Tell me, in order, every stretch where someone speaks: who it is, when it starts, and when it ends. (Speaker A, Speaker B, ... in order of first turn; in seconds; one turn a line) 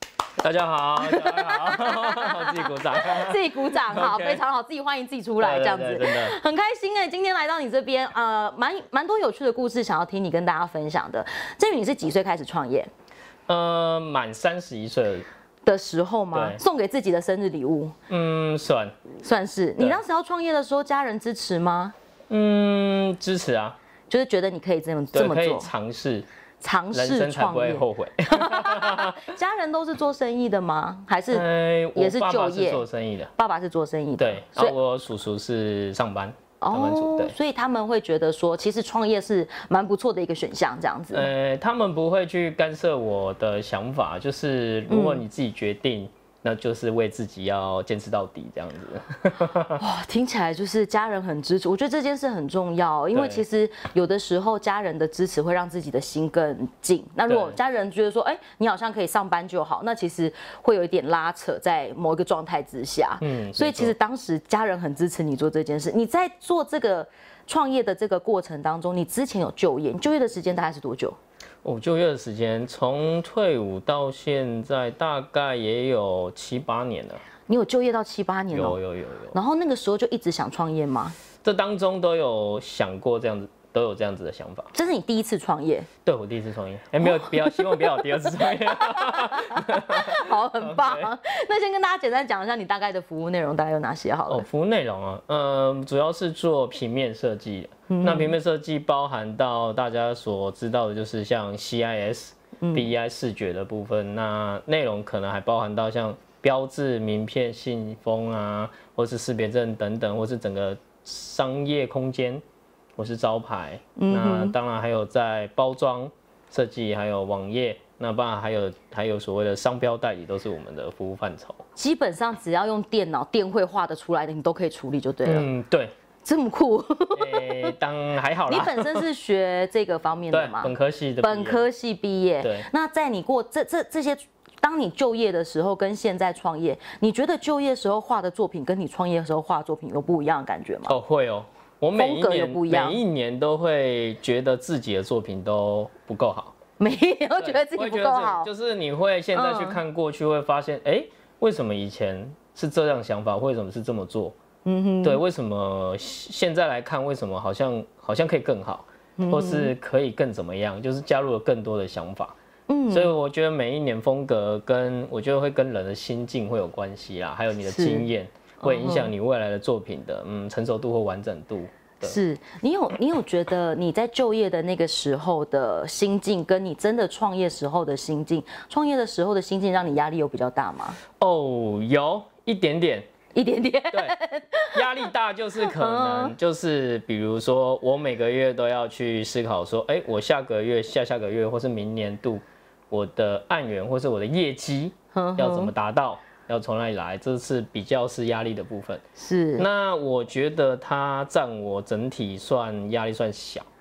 Speaker A: 0.4-4.4
Speaker B: 1.0-12.9
Speaker A: 5.4-6.4
Speaker A: 13.5-15.2
Speaker B: 15.6-17.9
Speaker A: 16.3-16.6
Speaker A: 18.1-18.9
Speaker B: 19.2-21.9
Speaker A: 22.3-23.8
Speaker B: 24.1-25.7
Speaker A: 25.1-26.3
Speaker B: 26.6-32.8
Speaker A: 26.9-29.2
Speaker A: 31.3-33.3
Speaker B: 33.4-34.8
Speaker A: 34.2-37.3
Speaker B: 36.6-41.3
Speaker A: 41.1-49.8
Speaker B: 44.9-45.2
Speaker B: 49.7-71.2
Speaker A: 53.1-53.4
Speaker A: 57.3-57.6
Speaker A: 63.2-64.0
Speaker A: 71.6-77.2
Speaker B: 77.5-78.8
Speaker A: 78.5-79.3
Speaker B: 79.3-81.1
Speaker A: 81.4-84.7
Speaker B: 84.7-85.9
Speaker A: 86.0-91.1
Speaker B: 87.0-94.5
Speaker A: 94.3-112.4
Speaker B: 97.9-98.3
Speaker B: 102.6-102.9
Speaker A: 113.0-121.6
Speaker B: 114.0-114.5
Speaker B: 121.8-125.5
Speaker A: 125.2-125.9
Speaker B: 126.2-127.7
Speaker A: 127.1-129.1
Speaker B: 128.5-140.9
Speaker A: 130.3-131.6
Speaker A: 132.4-132.7
Speaker A: 140.9-146.5
Speaker B: 141.9-143.0
Speaker B: 146.8-148.5
Speaker A: 147.4-154.3
Speaker B: 149.3-149.8
Speaker B: 154.6-155.2
Speaker A: 155.0-162.3
Speaker B: 159.2-159.7
Speaker B: 162.7-163.1
Speaker A: 162.9-172.2
Speaker B: 167.6-168.1
Speaker B: 168.6-169.1
Speaker B: 172.0-181.0
Speaker A: 181.2-183.1
Speaker B: 183.3-186.3
Speaker A: 184.7-199.0
Speaker B: 195.1-195.7
Speaker B: 199.2-199.7
Speaker A: 199.6-203.7